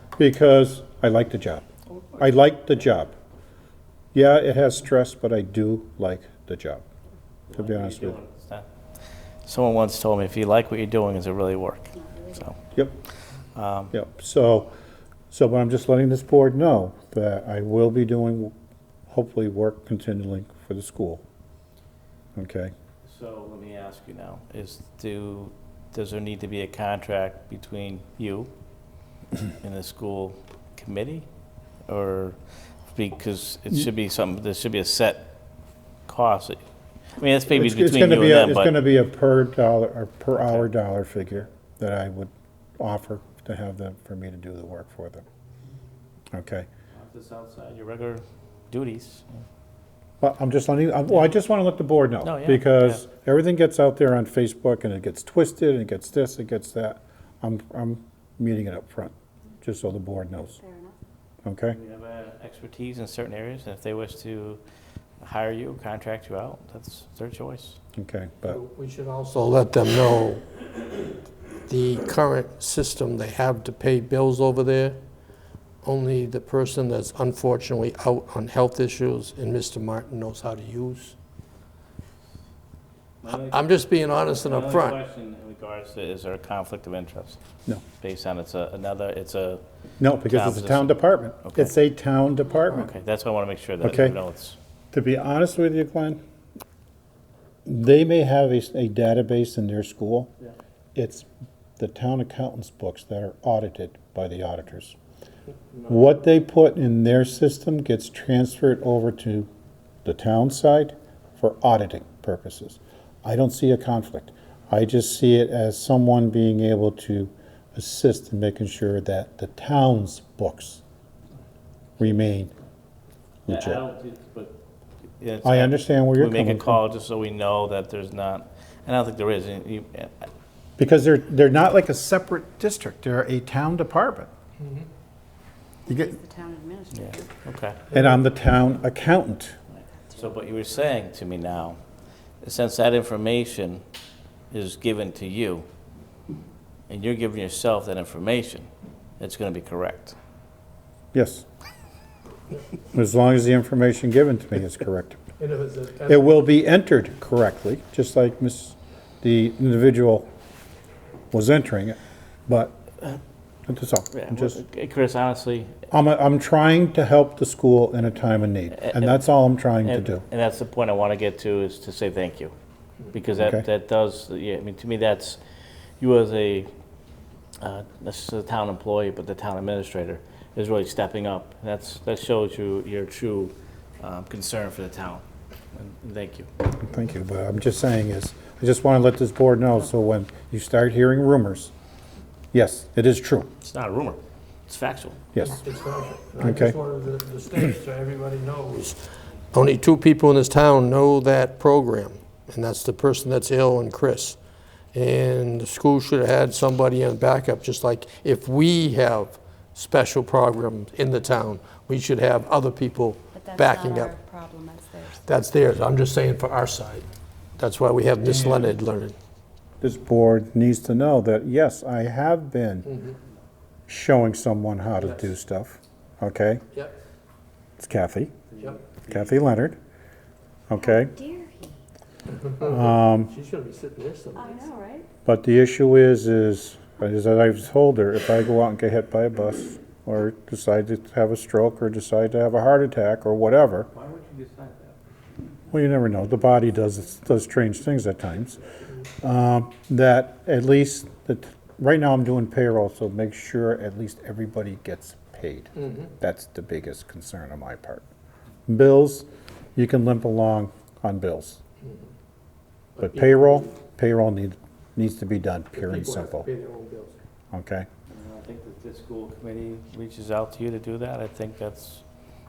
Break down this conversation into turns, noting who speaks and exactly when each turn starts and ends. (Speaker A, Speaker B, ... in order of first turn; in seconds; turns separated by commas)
Speaker A: 0.2-1.6, Speaker A: 2.2-3.1, Speaker A: 4.1-6.8, Speaker B: 7.5-8.7, Speaker A: 7.5-8.2, Speaker B: 9.4-12.6, Speaker C: 11.9-12.5, Speaker B: 13.5-13.9, Speaker A: 13.9-14.7, Speaker A: 15.3-18.5, Speaker A: 19.1-21.2, Speaker A: 22.4-22.7, Speaker B: 23.0-28.5, Speaker B: 29.6-31.2, Speaker B: 31.9-32.4, Speaker B: 32.9-35.3, Speaker B: 36.1-36.6, Speaker B: 37.2-38.8, Speaker A: 37.5-45.2, Speaker A: 46.3-46.7, Speaker B: 47.0-49.4, Speaker A: 50.2-60.6, Speaker B: 52.2-53.0, Speaker C: 60.4-61.0, Speaker A: 61.4-61.8, Speaker B: 61.7-64.6, Speaker B: 65.2-67.8, Speaker A: 67.9-68.6, Speaker D: 68.5-70.4, Speaker D: 71.7-75.0, Speaker D: 75.8-81.1, Speaker B: 83.2-87.4, Speaker D: 83.3-85.0, Speaker B: 88.0-89.6, Speaker A: 90.0-92.9, Speaker B: 90.2-91.7, Speaker B: 92.7-94.6, Speaker A: 93.8-94.2, Speaker A: 94.9-96.2, Speaker A: 97.7-100.3, Speaker A: 100.9-105.0, Speaker A: 105.9-109.5, Speaker A: 110.0-120.8, Speaker A: 122.0-122.5, Speaker A: 123.5-123.8, Speaker B: 123.5-124.5, Speaker B: 125.2-130.3, Speaker A: 125.4-126.8, Speaker A: 130.8-134.3, Speaker D: 134.6-134.9, Speaker A: 135.9-136.2, Speaker C: 135.9-137.2, Speaker B: 136.9-137.8, Speaker A: 137.9-139.5, Speaker B: 140.1-141.8, Speaker B: 142.4-143.8, Speaker B: 144.5-145.7, Speaker B: 146.9-150.2, Speaker A: 151.1-151.4, Speaker A: 152.9-155.2, Speaker D: 155.4-156.3, Speaker A: 156.1-160.3, Speaker A: 161.3-162.8, Speaker A: 163.7-164.6, Speaker B: 164.1-165.8, Speaker A: 165.9-170.2, Speaker B: 168.7-169.2, Speaker B: 169.8-172.5, Speaker B: 173.1-175.4, Speaker A: 173.3-173.6, Speaker B: 176.0-176.7, Speaker B: 177.6-186.5, Speaker A: 186.8-191.7, Speaker A: 192.5-193.5, Speaker B: 193.6-195.2, Speaker A: 195.3-195.6, Speaker D: 195.6-204.4, Speaker A: 196.4-196.7, Speaker D: 204.9-214.1, Speaker C: 213.3-215.2, Speaker D: 215.2-217.1, Speaker D: 217.6-219.1, Speaker A: 218.2-218.7, Speaker A: 219.8-222.9, Speaker A: 223.9-226.6, Speaker D: 225.0-225.3, Speaker A: 227.8-228.3, Speaker B: 228.5-229.4, Speaker A: 229.0-229.8, Speaker A: 230.7-231.1, Speaker C: 230.7-231.8, Speaker D: 232.3-234.8, Speaker A: 232.6-233.3, Speaker C: 234.3-235.1, Speaker A: 235.2-243.9, Speaker B: 243.9-245.0, Speaker A: 245.7-248.6, Speaker A: 249.2-258.0, Speaker D: 255.8-256.1, Speaker A: 258.7-261.6, Speaker D: 261.8-262.1, Speaker D: 263.0-263.7, Speaker A: 263.0-266.4, Speaker D: 265.7-267.2, Speaker A: 267.5-267.9, Speaker B: 268.1-272.0